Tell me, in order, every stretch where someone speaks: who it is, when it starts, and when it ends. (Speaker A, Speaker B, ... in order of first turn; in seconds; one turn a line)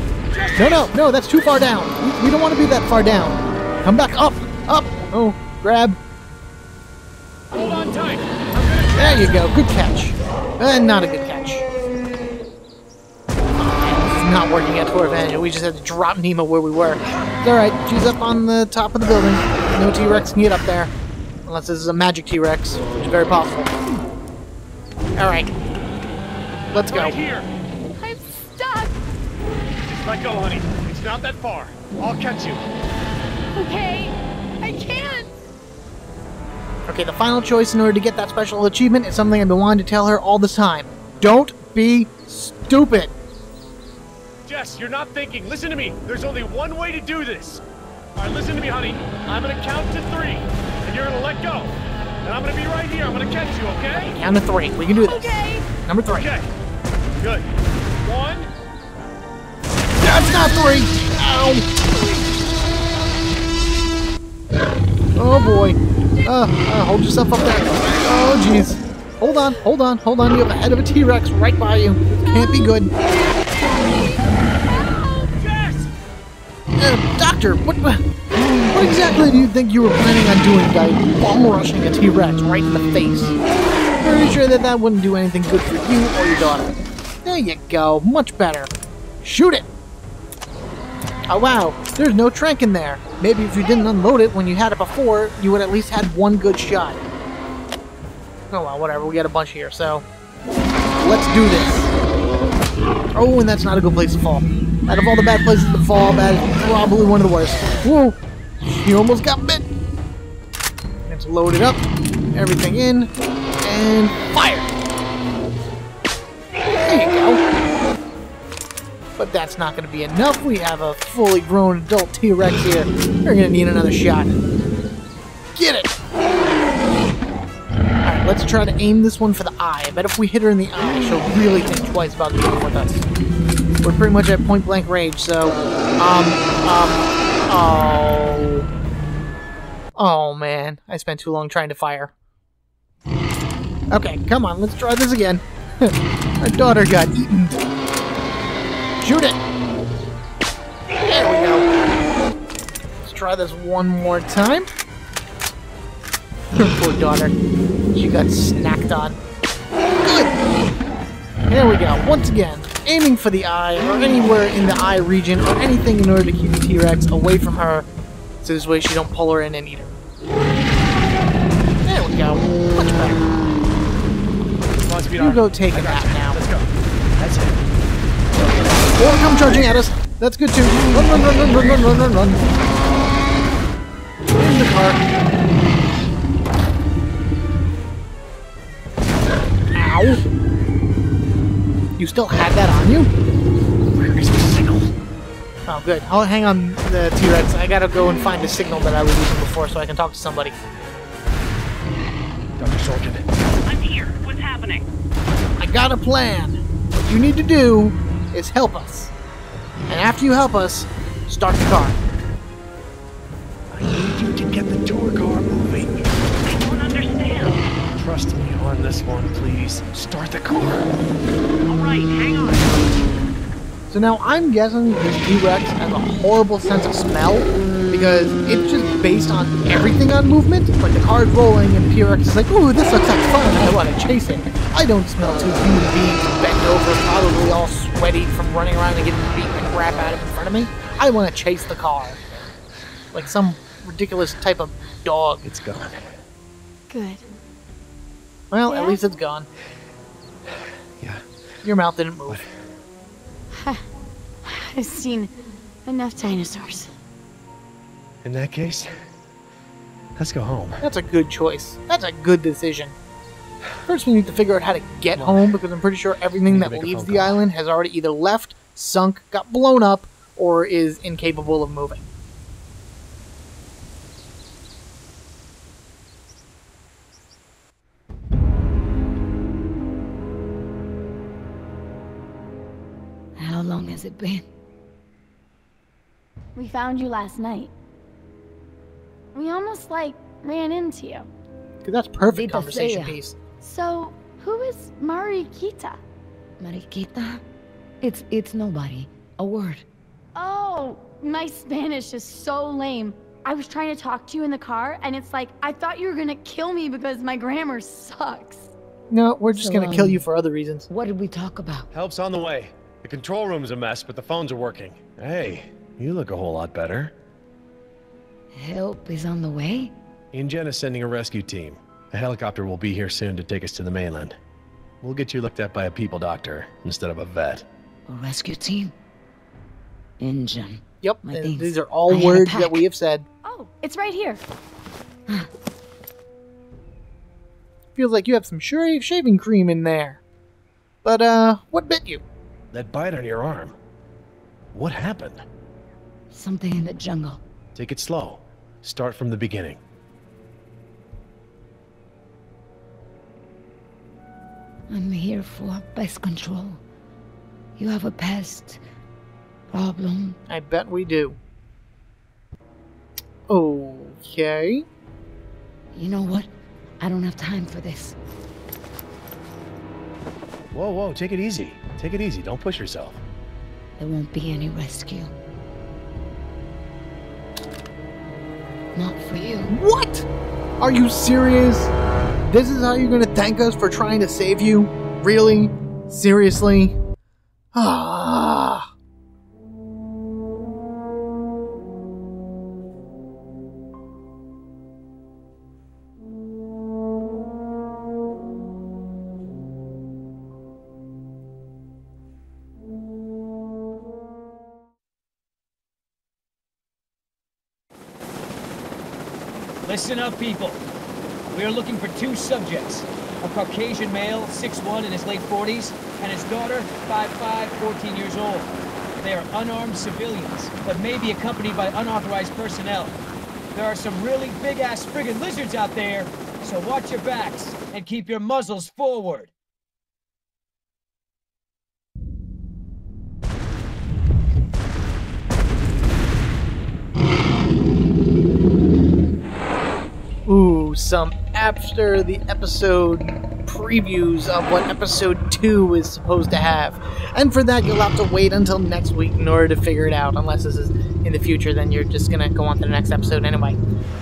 Speaker A: 0.3-0.9
Speaker B: 0.6-6.0
Speaker A: 7.5-9.4
Speaker B: 8.9-11.6
Speaker B: 13.6-20.9
Speaker B: 21.4-23.7
Speaker B: 25.2-25.5
Speaker A: 26.7-27.5
Speaker B: 26.7-27.2
Speaker C: 28.0-28.9
Speaker A: 29.8-32.6
Speaker C: 33.5-35.3
Speaker B: 36.9-43.1
Speaker A: 44.4-47.6
Speaker A: 48.1-54.1
Speaker B: 53.9-56.3
Speaker C: 55.0-55.7
Speaker A: 56.1-56.5
Speaker A: 57.2-57.5
Speaker A: 58.0-58.5
Speaker B: 60.0-61.8
Speaker C: 61.8-62.3
Speaker B: 65.2-72.9
Speaker C: 72.1-75.8
Speaker B: 76.8-83.3
Speaker B: 84.0-89.7
Speaker B: 91.3-97.0
Speaker B: 98.5-100.0
Speaker B: 101.0-101.9
Speaker B: 103.1-109.7
Speaker B: 111.1-113.1
Speaker B: 113.6-114.7
Speaker B: 116.8-117.4
Speaker B: 119.2-124.4
Speaker B: 125.5-125.9
Speaker B: 128.0-133.1
Speaker B: 133.8-138.6
Speaker B: 139.9-142.1
Speaker B: 143.9-147.6
Speaker B: 149.0-149.4
Speaker B: 151.1-151.7
Speaker B: 153.0-154.7
Speaker B: 156.5-157.3
Speaker B: 157.9-159.2
Speaker B: 160.0-160.3
Speaker B: 161.5-167.9
Speaker B: 168.4-169.9
Speaker B: 171.8-173.3
Speaker A: 174.8-177.6
Speaker B: 175.1-176.4
Speaker B: 179.0-182.4
Speaker B: 184.3-185.0
Speaker B: 189.7-190.2
Speaker B: 192.0-193.1
Speaker A: 194.0-194.9
Speaker B: 195.7-200.6
Speaker A: 202.6-203.2
Speaker D: 203.7-204.9
Speaker B: 205.6-209.1
Speaker B: 209.9-212.0
Speaker A: 213.7-216.1
Speaker D: 216.4-217.6
Speaker A: 217.9-220.9
Speaker D: 221.7-222.8
Speaker B: 223.9-242.2
Speaker B: 243.1-245.5
Speaker A: 245.4-246.1
Speaker C: 246.9-247.2
Speaker B: 248.5-249.5
Speaker C: 248.7-249.0
Speaker A: 250.5-251.2
Speaker B: 251.6-252.4
Speaker C: 253.5-253.8
Speaker C: 254.4-255.3
Speaker C: 255.8-256.9
Speaker A: 258.2-258.9
Speaker A: 260.2-260.8
Speaker B: 260.8-262.9
Speaker B: 263.8-272.0
Speaker A: 265.1-265.6
Speaker A: 266.4-267.4
Speaker E: 283.4-284.4
Speaker C: 286.6-287.7
Speaker C: 289.3-291.3
Speaker B: 291.8-293.4
Speaker E: 292.3-293.2
Speaker C: 293.6-296.0
Speaker E: 296.6-297.4
Speaker E: 298.0-299.8
Speaker C: 300.3-308.7
Speaker B: 309.1-310.9
Speaker E: 309.5-310.2
Speaker E: 310.9-311.9
Speaker A: 311.9-317.1
Speaker E: 318.5-319.9
Speaker A: 320.3-324.4
Speaker A: 325.0-327.6
Speaker E: 328.1-328.9
Speaker E: 330.2-332.9
Speaker B: 331.0-333.2
Speaker C: 333.4-334.4
Speaker B: 337.9-340.2
Speaker B: 341.0-342.2
Speaker A: 342.7-343.7
Speaker A: 344.7-345.4
Speaker E: 346.3-347.4
Speaker A: 347.7-349.8
Speaker E: 354.9-356.8
Speaker E: 357.8-358.8
Speaker E: 359.7-360.4
Speaker B: 360.5-361.4
Speaker B: 363.5-364.8
Speaker E: 365.9-366.5
Speaker E: 367.0-368.1
Speaker A: 370.7-373.2
Speaker E: 374.0-375.3
Speaker E: 378.9-379.7
Speaker B: 379.7-380.2
Speaker B: 380.8-381.9
Speaker B: 382.5-387.0
Speaker B: 387.7-388.9
Speaker F: 409.8-410.8
Speaker F: 411.5-423.2
Speaker F: 423.7-429.5
Speaker B: 440.5-453.8